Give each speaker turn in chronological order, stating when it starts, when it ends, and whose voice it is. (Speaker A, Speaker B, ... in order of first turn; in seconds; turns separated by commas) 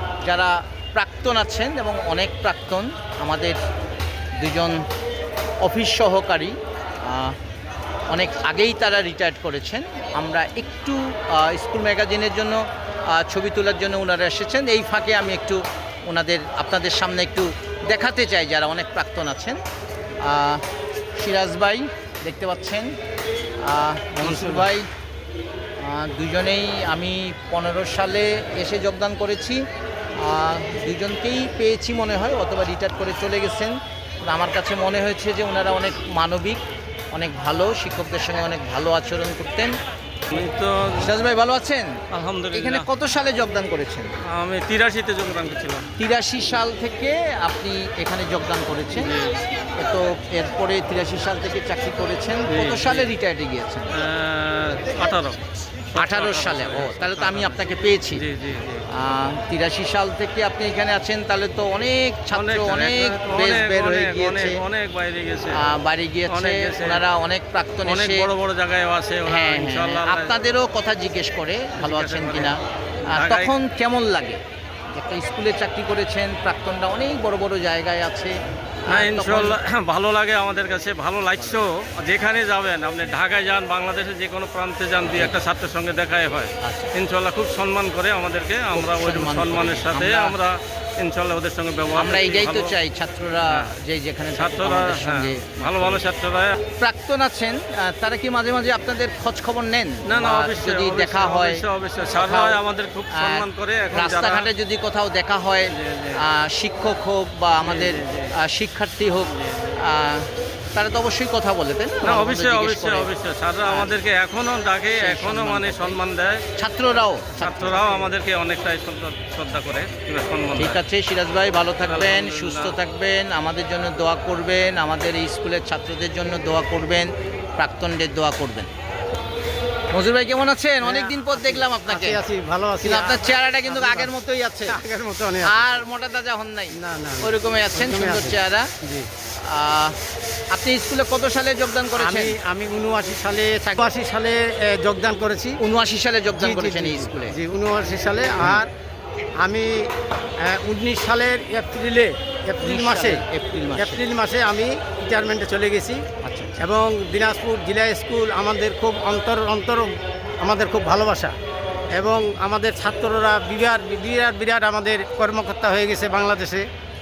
Speaker A: 0.2-3.6, Speaker A: 4.4-4.8, Speaker A: 5.6-7.3, Speaker A: 8.1-19.6, Speaker A: 20.2-20.6, Speaker A: 21.1-22.9, Speaker A: 23.6-24.9, Speaker B: 24.2-24.7, Speaker A: 25.8-29.6, Speaker A: 30.2-39.7, Speaker B: 40.3-41.1, Speaker A: 41.0-42.0, Speaker B: 42.1-42.9, Speaker A: 42.5-44.1, Speaker B: 44.3-45.9, Speaker A: 46.0-49.1, Speaker B: 49.0-49.4, Speaker A: 49.8-53.9, Speaker B: 52.5-53.1, Speaker B: 53.9-55.4, Speaker B: 55.9-57.6, Speaker A: 55.9-58.2, Speaker B: 58.2-58.8, Speaker A: 58.9-64.6, Speaker B: 62.3-65.7, Speaker A: 65.5-68.3, Speaker B: 66.3-67.0, Speaker B: 67.8-70.4, Speaker A: 69.2-74.4, Speaker B: 71.8-72.5, Speaker B: 73.1-73.5, Speaker A: 74.9-78.3, Speaker A: 78.8-79.6, Speaker B: 78.9-92.7, Speaker A: 81.4-81.6, Speaker A: 85.1-85.3, Speaker A: 86.6-86.9, Speaker A: 88.7-90.3, Speaker A: 91.9-96.0, Speaker B: 93.5-93.7, Speaker B: 94.3-96.6, Speaker A: 96.8-102.6, Speaker B: 100.0-104.5, Speaker A: 103.1-113.1, Speaker B: 105.7-106.2, Speaker B: 107.6-108.3, Speaker B: 109.3-109.8, Speaker B: 112.0-116.4, Speaker A: 113.7-113.9, Speaker A: 114.9-116.0, Speaker A: 116.6-118.1, Speaker B: 117.3-120.8, Speaker A: 120.5-128.7, Speaker B: 121.8-122.8, Speaker A: 129.9-132.2, Speaker C: 130.8-134.1, Speaker A: 132.8-134.8, Speaker C: 134.6-135.8, Speaker A: 135.4-138.7, Speaker C: 136.7-139.1, Speaker A: 139.4-139.9, Speaker A: 140.5-142.4, Speaker C: 141.9-145.6, Speaker A: 145.6-147.3, Speaker C: 146.3-148.7, Speaker C: 149.4-149.7, Speaker C: 150.4-153.2, Speaker A: 152.6-154.0, Speaker C: 153.8-156.0, Speaker A: 156.2-156.5, Speaker C: 156.6-161.3, Speaker C: 161.9-166.6